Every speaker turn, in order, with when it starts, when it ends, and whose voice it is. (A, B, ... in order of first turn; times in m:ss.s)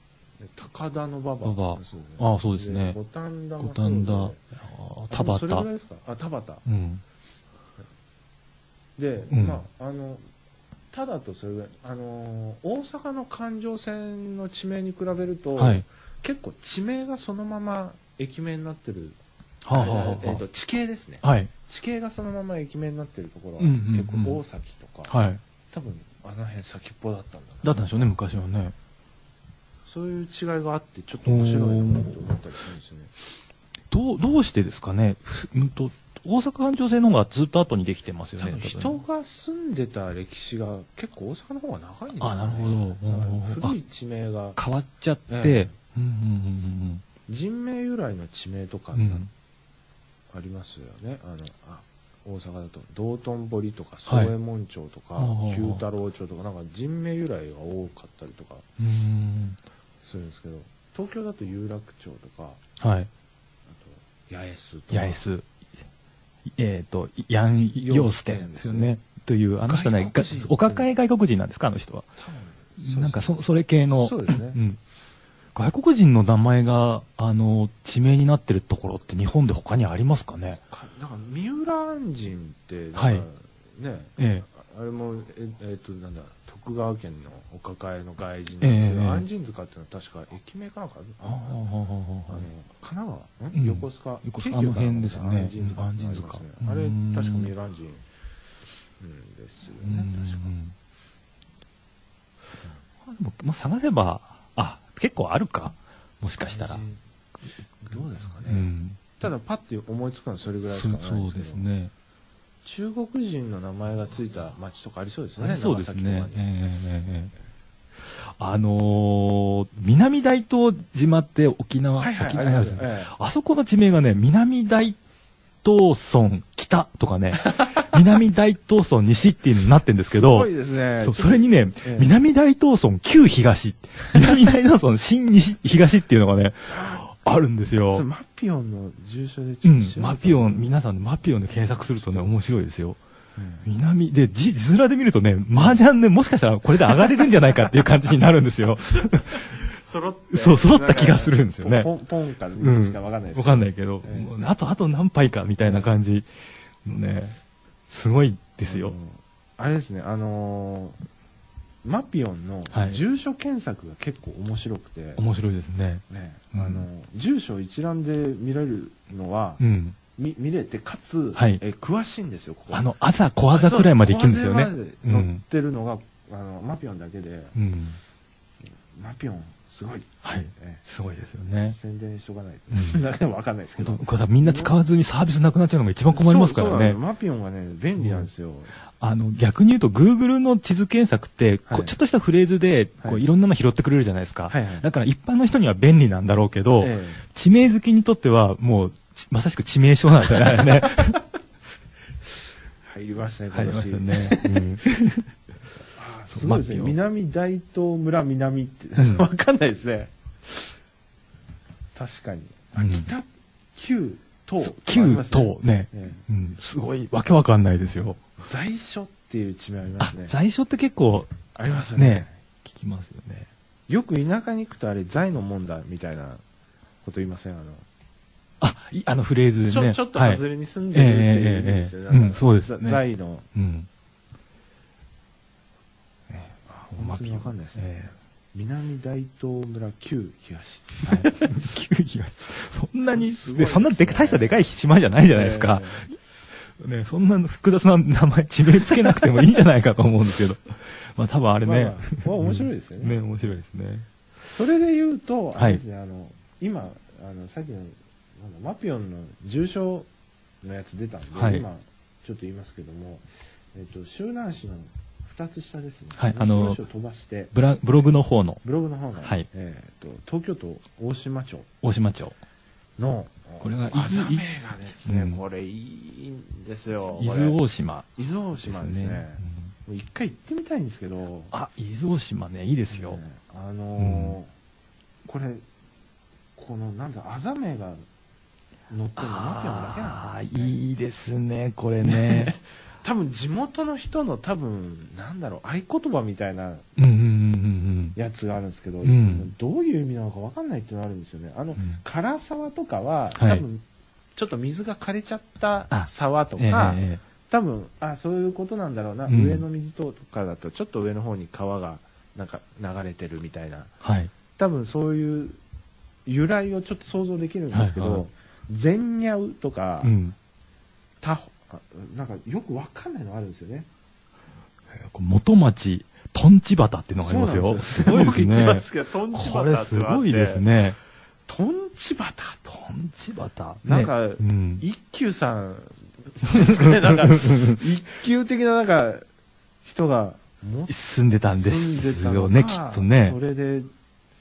0:00.4-0:04.4 A
0:01.4-0:03.0 B
0:03.6-0:05.7 B
0:05.1-0:06.6 A
0:06.6-0:07.0 B
0:09.0-0:10.2 A
0:09.3-0:09.6 B
0:10.9-0:19.2 A
0:15.6-0:15.8 B
0:19.6-0:20.4 B
0:19.7-0:25.2 A
0:21.2-0:21.5 B
0:23.6-0:24.4 B
0:25.1-0:25.4 B
0:25.7-0:28.1 A
0:27.6-0:28.7 B
0:29.9-0:33.1 A
0:31.2-0:32.3 B
0:33.9-0:39.0 B
0:38.4-0:44.6 A
0:42.2-0:43.8 B
0:44.6-0:47.0 B
0:45.3-0:45.7 A
0:47.3-0:49.3 A
0:48.9-0:49.3 B
0:50.3-0:58.6 A
0:54.1-0:54.3 B
0:55.2-0:55.8 B
0:58.8-0:59.6 B
1:00.0-1:02.6 A
1:02.8-1:03.1 B
1:03.7-1:05.2 A
1:04.9-1:05.5 B
1:06.4-1:12.1 B
1:07.8-1:08.9 A
1:09.6-1:10.9 A
1:12.2-1:13.3 A
1:12.8-1:14.8 B
1:13.9-1:14.6 A
1:15.5-1:20.6 B
1:20.7-1:31.6 A
1:22.9-1:23.2 B
1:24.2-1:24.4 B
1:28.6-1:29.2 B
1:31.2-1:32.5 B
1:32.3-1:38.0 A
1:33.5-1:37.5 B
1:39.0-1:40.5 A
1:39.8-1:40.7 B
1:43.0-1:46.8 B
1:46.4-1:47.0 A
1:47.8-1:51.6 A
1:48.4-1:49.2 B
1:50.7-1:51.9 B
1:52.6-1:56.4 A
1:55.4-1:57.3 B
1:58.0-2:05.0 B
2:02.0-2:03.1 A
2:05.6-2:18.0 B
2:10.1-2:12.1 A
2:16.7-2:17.0 A
2:17.9-2:20.7 A
2:19.6-2:23.0 B
2:21.5-2:22.3 A
2:23.4-2:23.7 A
2:23.6-2:29.6 B
2:25.5-2:25.8 A
2:29.3-2:34.5 A
2:30.3-2:31.9 B
2:32.6-2:36.3 B
2:35.6-2:35.9 A
2:36.8-2:37.4 B
2:37.9-2:38.9 B
2:38.6-2:41.0 A
2:41.8-2:45.2 A
2:42.7-2:43.0 B
2:45.2-2:46.8 B
2:46.1-2:49.6 A
2:49.6-2:50.0 B
2:50.2-2:52.9 A
2:51.4-2:51.6 B
2:52.7-2:55.4 B
2:53.5-2:57.6 A
2:57.5-2:58.0 B
2:58.9-3:00.8 A
3:00.2-3:01.8 B
3:01.6-3:04.8 A
3:02.7-3:03.0 B
3:03.8-3:07.0 B
3:06.1-3:08.7 A
3:08.0-3:08.3 B
3:09.0-3:21.2 B
3:11.7-3:11.9 A
3:14.5-3:14.8 A
3:16.8-3:17.2 A
3:22.8-3:24.6 A
3:23.5-3:25.3 B
3:25.9-3:30.7 A
3:26.3-3:27.0 B
3:29.0-3:29.2 B
3:31.9-3:36.2 A
3:32.8-3:33.1 B
3:34.6-3:38.2 B
3:38.4-3:40.3 A
3:40.0-3:41.4 B
3:41.5-3:42.3 A
3:41.9-3:43.5 B
3:43.9-3:46.4 A
3:47.0-3:47.8 A
3:48.6-3:53.0 B
3:49.7-3:53.4 A
3:53.5-3:53.9 B
3:56.3-3:58.1 B
3:56.7-4:01.5 A
4:01.0-4:14.0 B
4:03.1-4:04.6 A
4:05.3-4:06.1 A
4:11.6-4:13.2 A
4:14.4-4:20.1 A
4:15.6-4:15.8 B
4:20.6-4:27.5 A
4:21.3-4:21.6 B
4:26.2-4:26.8 B
4:27.5-4:28.6 B
4:28.6-4:31.7 A
4:31.8-4:32.4 B
4:33.0-4:37.6 A
4:33.6-4:34.4 B
4:35.0-4:35.4 B
4:37.2-4:39.7 B
4:38.2-4:41.5 A
4:41.5-4:43.2 B
4:42.9-4:44.5 A
4:44.0-4:44.4 B
4:45.2-4:45.6 A
4:46.6-4:48.0 A
4:48.9-4:50.8 A
4:49.2-4:52.5 B
4:52.0-4:56.8 A
4:57.0-4:58.2 B
4:58.2-5:03.8 A
4:59.0-4:59.5 B
5:03.4-5:03.6 B
5:04.4-5:13.9 A
5:05.9-5:07.2 B
5:09.3-5:09.6 B
5:14.0-5:14.3 B
5:14.6-5:15.6 A
5:16.2-5:20.1 A
5:17.7-5:18.2 B
5:20.0-5:20.3 B
5:21.2-5:23.9 A
5:24.9-5:31.0 B
5:27.2-5:30.6 A
5:31.5-5:32.7 A
5:32.7-5:34.8 B
5:33.8-5:39.2 A
5:36.5-5:37.8 B
5:39.8-5:41.0 A
5:40.9-5:43.4 B
5:41.6-5:43.9 A